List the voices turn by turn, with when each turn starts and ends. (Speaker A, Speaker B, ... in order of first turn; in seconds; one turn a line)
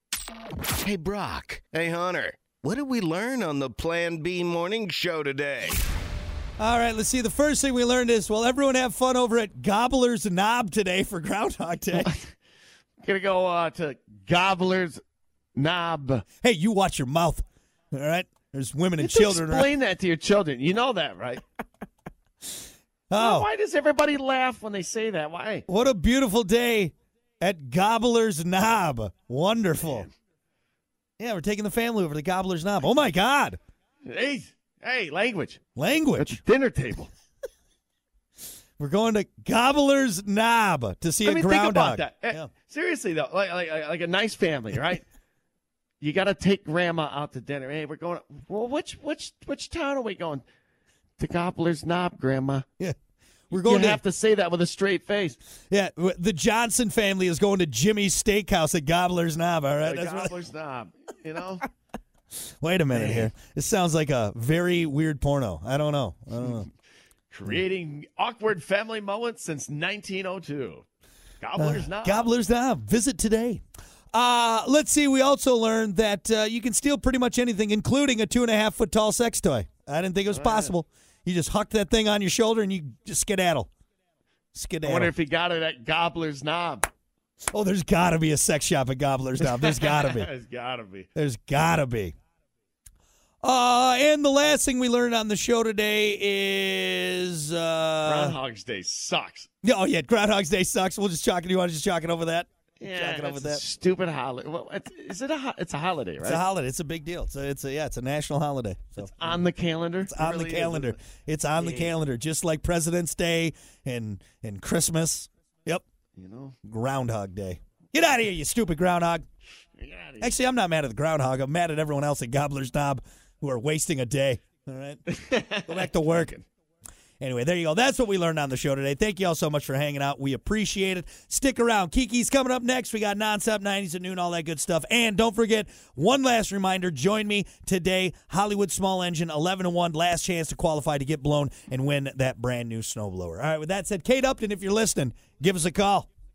Speaker A: 0.7-5.8
Speaker B: 6.6-12.2
Speaker C: 11.9-12.2
Speaker C: 13.0-15.0
Speaker C: 15.6-16.2
Speaker B: 16.4-19.7
Speaker C: 19.0-21.4
Speaker B: 23.1-23.5
Speaker C: 23.1-25.6
Speaker B: 25.7-30.1
Speaker C: 29.8-30.1
Speaker B: 31.2-33.6
Speaker C: 34.1-35.6
Speaker B: 35.8-36.4
Speaker C: 36.2-37.1
Speaker B: 38.8-42.5
Speaker C: 41.2-45.0
Speaker C: 46.0-50.4
Speaker C: 51.2-52.6
Speaker B: 53.5-54.0
Speaker C: 53.5-55.4
Speaker B: 55.7-60.3
Speaker C: 59.8-61.6
Speaker B: 62.6-66.7
Speaker C: 62.9-63.3
Speaker C: 67.3-70.8
Speaker C: 71.4-72.3
Speaker B: 71.6-73.6
Speaker B: 74.1-83.7
Speaker C: 80.3-80.7
Speaker B: 84.5-85.1
Speaker C: 84.8-86.9
Speaker B: 87.5-90.3
Speaker C: 89.4-91.1
Speaker B: 91.2-92.2
Speaker B: 93.4-98.4
Speaker C: 98.0-99.5
Speaker B: 99.6-103.6
Speaker C: 102.8-106.4
Speaker B: 106.2-109.4
Speaker C: 109.0-111.0
Speaker B: 110.1-115.8
Speaker C: 111.6-111.9
Speaker C: 116.2-116.5
Speaker B: 116.6-119.2
Speaker C: 119.8-120.3
Speaker B: 120.2-126.3
Speaker C: 125.2-126.4
Speaker B: 127.2-146.1